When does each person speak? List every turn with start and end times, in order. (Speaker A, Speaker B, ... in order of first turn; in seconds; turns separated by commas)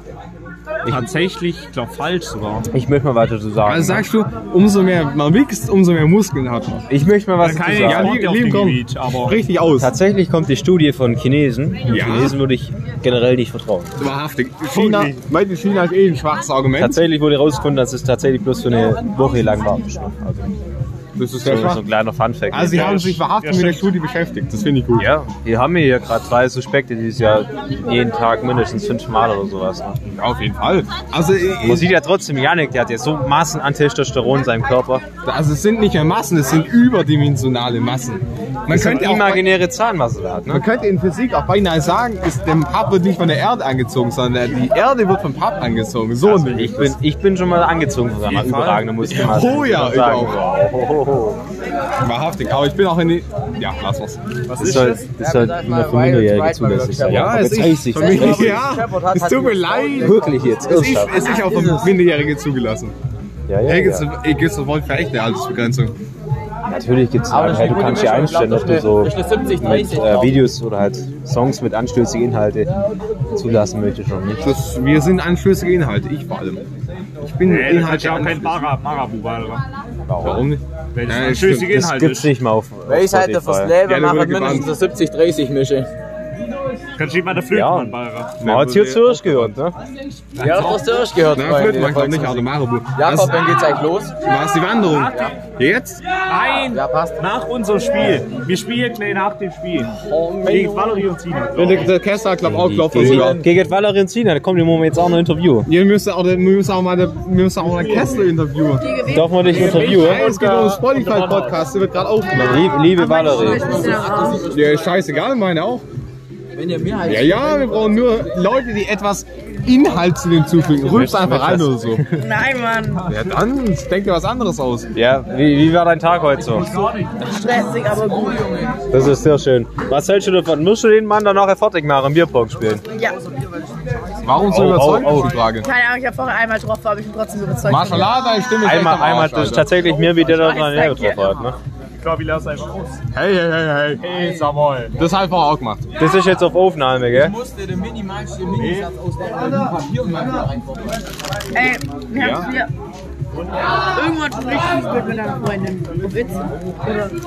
Speaker A: 0.9-1.1, Speaker B: 0.9-2.7, Speaker A: 2.7-4.1, Speaker C: 3.6-6.9, Speaker A: 6.9-8.3, Speaker B: 7.4-9.4, Speaker C: 7.8-9.9, Speaker A: 9.8-14.0, Speaker C: 11.9-12.4, Speaker C: 14.0-17.0, Speaker B: 14.7-15.2, Speaker A: 16.8-20.5, Speaker C: 21.2-21.9, Speaker A: 21.4-23.2, Speaker C: 22.5-25.1, Speaker B: 22.7-23.9, Speaker A: 25.0-30.0, Speaker C: 30.1-31.9, Speaker A: 31.6-35.0, Speaker C: 35.2-39.5, Speaker A: 38.7-40.7, Speaker C: 40.5-47.0, Speaker A: 46.2-51.4, Speaker C: 48.3-50.4, Speaker C: 52.0-54.2, Speaker D: 54.5-62.0, Speaker A: 54.6-58.6, Speaker C: 57.1-63.0, Speaker A: 60.0-61.4, Speaker A: 63.5-64.1, Speaker C: 63.6-66.0, Speaker A: 66.7-72.7, Speaker D: 67.3-70.5, Speaker A: 73.3-74.5, Speaker C: 74.4-76.7, Speaker C: 77.2-78.7, Speaker B: 77.4-79.6, Speaker C: 80.1-81.8, Speaker A: 80.1-80.4, Speaker B: 81.0-82.3, Speaker A: 81.5-83.8, Speaker D: 82.9-85.9, Speaker C: 83.8-84.7, Speaker B: 87.0-88.4, Speaker A: 87.5-89.8, Speaker C: 88.4-89.6, Speaker D: 90.4-94.2, Speaker C: 90.4-93.5, Speaker C: 94.2-96.1, Speaker B: 94.9-95.4, Speaker B: 96.2-102.0, Speaker D: 96.7-97.2, Speaker D: 99.8-101.0, Speaker C: 101.5-103.5, Speaker A: 102.4-105.7, Speaker D: 103.0-103.3, Speaker C: 105.7-109.0, Speaker B: 107.7-108.1, Speaker E: 108.8-109.4, Speaker A: 109.1-110.3, Speaker B: 109.4-111.6, Speaker C: 109.5-112.8, Speaker A: 112.4-113.9, Speaker E: 112.8-114.5, Speaker D: 113.2-114.9, Speaker C: 114.5-115.9, Speaker D: 116.5-118.1, Speaker C: 117.0-122.1, Speaker A: 120.8-122.1, Speaker E: 122.1-123.1, Speaker C: 123.1-124.9, Speaker A: 124.9-126.7, Speaker D: 126.7-127.3, Speaker E: 127.2-128.5, Speaker D: 127.8-128.9, Speaker A: 128.9-132.8, Speaker C: 134.2-135.7, Speaker A: 134.5-135.4, Speaker E: 135.6-138.2, Speaker C: 137.7-139.8, Speaker A: 138.6-141.6, Speaker E: 140.0-141.4, Speaker B: 142.0-143.0, Speaker C: 143.1-144.1, Speaker B: 144.0-144.9, Speaker C: 144.9-145.9, Speaker A: 146.0-147.3, Speaker D: 147.1-151.1, Speaker B: 148.5-148.9, Speaker E: 151.5-152.7, Speaker C: 152.2-152.5, Speaker E: 153.9-157.1